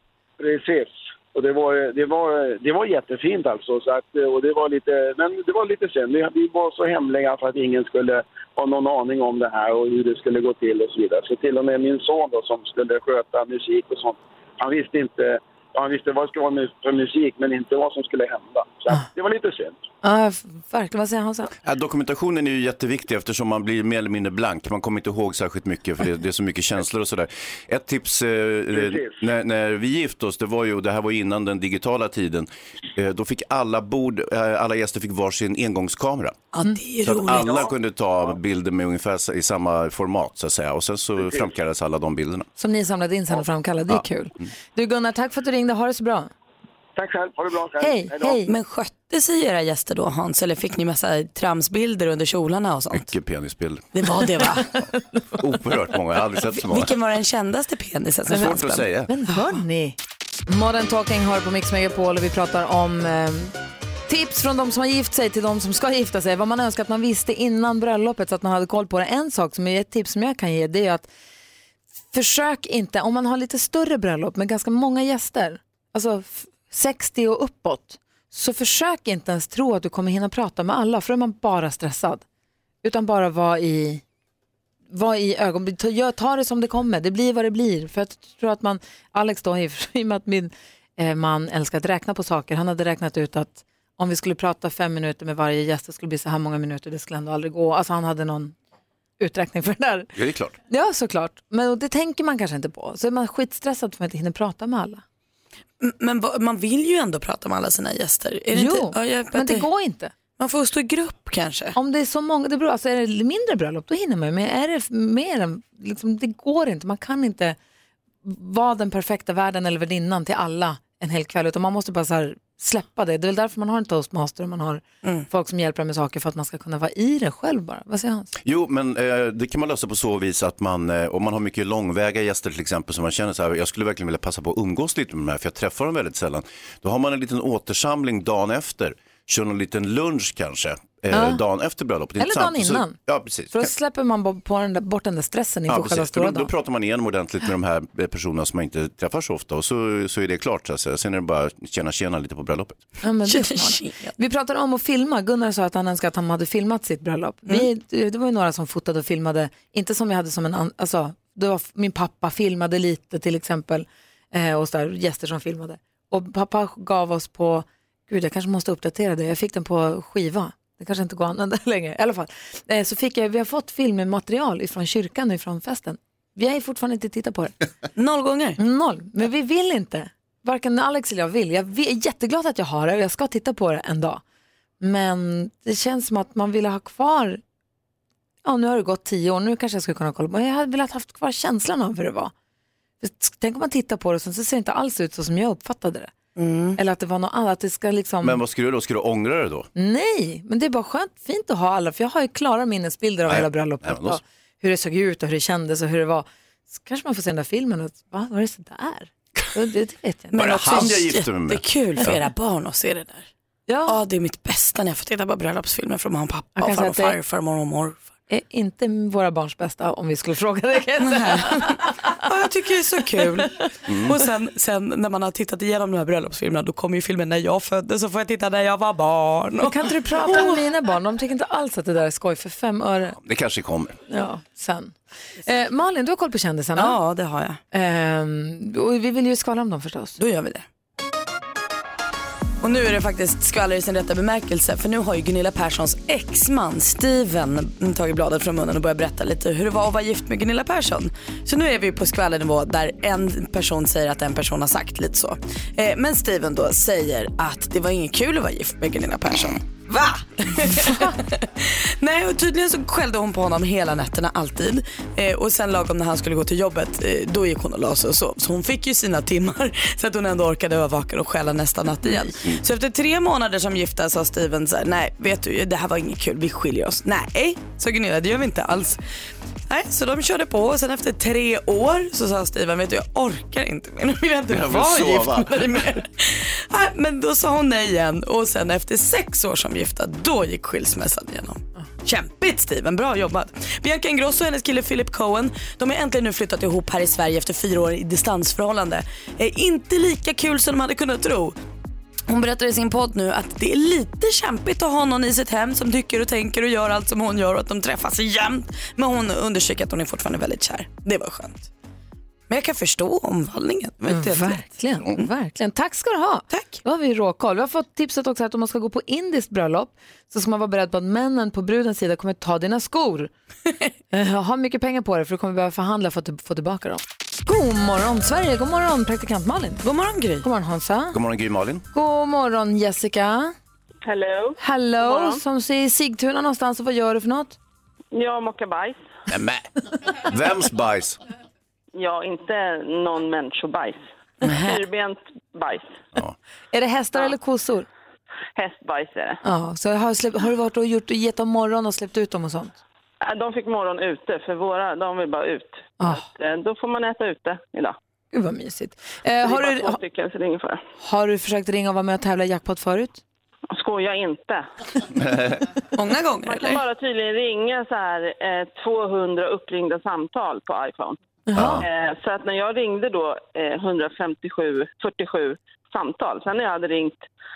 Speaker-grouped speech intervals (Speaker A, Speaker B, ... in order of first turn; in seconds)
Speaker A: 0.4-19.8, 28.7-29.2, 47.0-48.4
Speaker B: 20.0-21.5, 42.6-46.3, 47.8-48.5, 59.1-63.5, 64.1-71.1, 72.1-82.2, 82.8-84.0, 84.9-98.5, 99.2-100.1, 100.7-105.0, 108.5-110.1, 111.7-117.6, 118.2-128.3, 141.1-141.4, 142.2-142.9, 143.5-146.5, 153.0-177.5, 178.6-184.2, 184.8-187.4, 188.4-192.3, 193.0-196.1, 196.8-198.4, 199.8-211.0, 213.7-214.0, 216.6-217.2, 218.3-221.9, 229.6-233.1, 234.1-237.0, 237.7-240.2, 314.1-323.3, 324.1-329.8, 330.4-331.2, 331.9-333.5, 334.6-337.6, 346.7-347.9, 349.4-352.8, 358.3-360.0, 361.0-363.2, 371.5-371.8
Speaker C: 21.6-36.4, 37.0-42.5, 52.9-53.9, 55.4-56.9, 58.3-59.1, 100.1-100.5, 128.4-143.7, 145.7-152.8, 198.2-199.7, 203.2-204.2, 210.3-212.2, 223.9-224.2, 233.2-234.0, 284.5-285.9, 331.1-331.8, 339.3-339.7, 340.2-341.2, 371.5-371.8
Speaker D: 36.5-37.6, 48.5-53.1, 53.9-54.8, 56.4-58.9, 105.8-109.7, 110.4-111.8, 153.3-154.1, 178.0-178.6, 196.4-196.8, 210.3-213.3, 213.9-218.0, 221.0-230.6, 236.8-237.6, 240.2-240.6, 242.6-279.0, 279.7-301.6, 302.3-311.7, 312.5-314.6, 316.5-316.8, 329.8-330.4, 365.9-366.8
Speaker E: 334.0-335.4, 338.1-339.0, 341.9-346.0, 348.6-349.4, 353.2-357.9, 359.4-360.8, 363.7-364.6, 366.4-371.2, 371.8-377.2